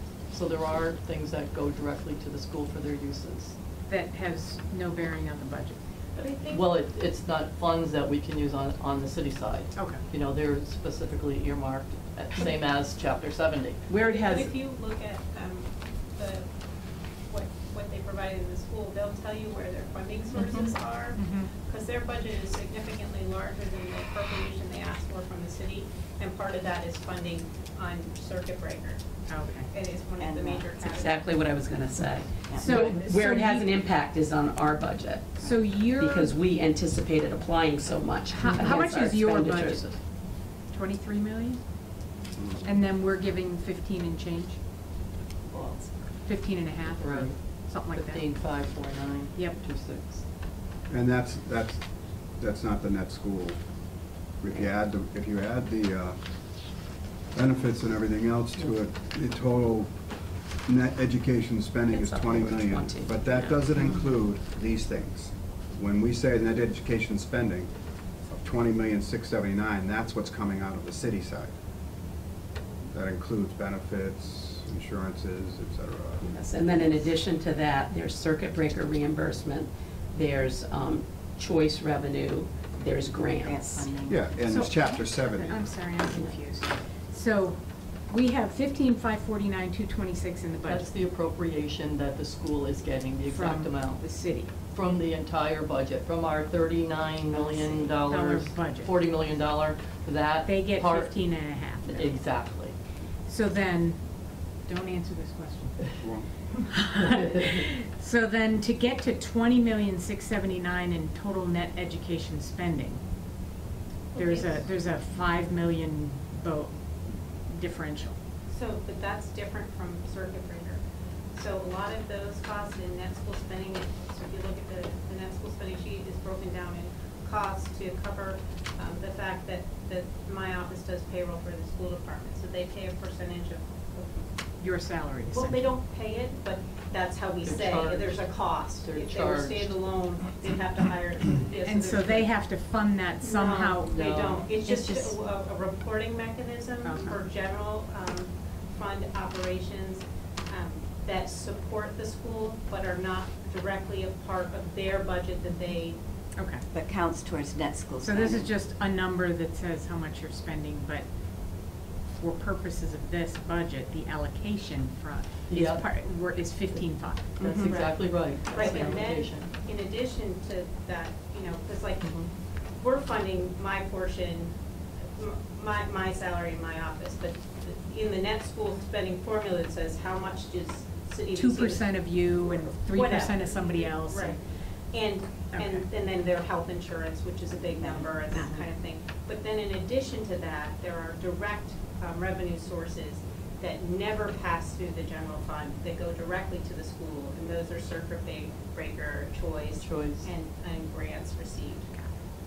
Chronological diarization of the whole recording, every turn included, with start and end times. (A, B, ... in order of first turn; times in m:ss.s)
0:00.3-0:03.6 A
0:03.9-0:05.8 B
0:06.2-0:06.7 C
0:06.5-0:13.9 A
0:09.8-0:10.0 B
0:13.9-0:14.6 D
0:14.0-0:16.5 C
0:17.3-0:31.3 C
0:21.2-0:21.5 B
0:29.3-0:29.7 B
0:30.2-0:30.8 E
0:30.9-0:39.8 D
0:32.5-0:32.8 E
0:32.6-0:33.7 B
0:35.4-0:36.4 B
0:38.3-0:41.6 B
0:42.4-0:42.8 F
0:42.6-0:44.6 B
0:45.5-0:45.8 A
0:46.1-0:48.3 B
0:46.9-0:50.2 A
0:49.3-0:49.6 B
0:50.9-0:51.8 F
0:52.4-0:53.6 F
0:54.4-0:56.2 F
0:57.3-0:59.9 F
1:00.7-1:07.7 F
1:01.9-1:03.7 D
1:08.3-1:11.5 F
1:12.9-1:16.3 F
1:16.2-1:23.9 D
1:23.3-1:24.4 E
1:24.1-1:25.7 F
1:24.4-1:30.9 B
1:26.1-1:26.4 D
1:30.7-1:34.0 A
1:33.3-1:34.5 B
1:34.7-1:41.2 A
1:38.0-1:38.9 B
1:40.4-1:42.2 B
1:41.8-1:42.8 A
1:43.3-1:44.0 B
1:44.7-1:46.0 B
1:46.0-1:46.3 F
1:46.7-1:53.0 B
1:54.1-1:54.6 C
1:54.2-1:56.8 B
1:57.5-1:58.2 B
1:58.5-2:00.8 C
2:01.3-2:14.3 C
2:14.6-2:15.7 B
2:15.3-2:22.3 C
2:17.4-2:18.2 A
2:18.8-2:19.8 A
2:21.6-2:24.0 B
2:23.2-2:36.0 C
2:23.9-2:24.6 A
2:24.7-2:25.1 E
2:26.8-2:27.2 B
2:36.4-2:36.6 B
2:36.7-2:38.5 E
2:38.0-2:41.1 B
2:42.2-2:49.1 B
2:45.5-2:45.8 A
2:47.4-2:49.5 A
2:47.5-2:52.2 C
2:52.0-2:52.3 A
2:52.8-2:54.5 C
2:55.2-3:01.8 C
3:01.3-3:04.4 B
3:02.9-3:04.4 C
3:04.9-3:21.9 C
3:05.5-3:05.9 B
3:07.8-3:08.6 E
3:19.8-3:20.3 A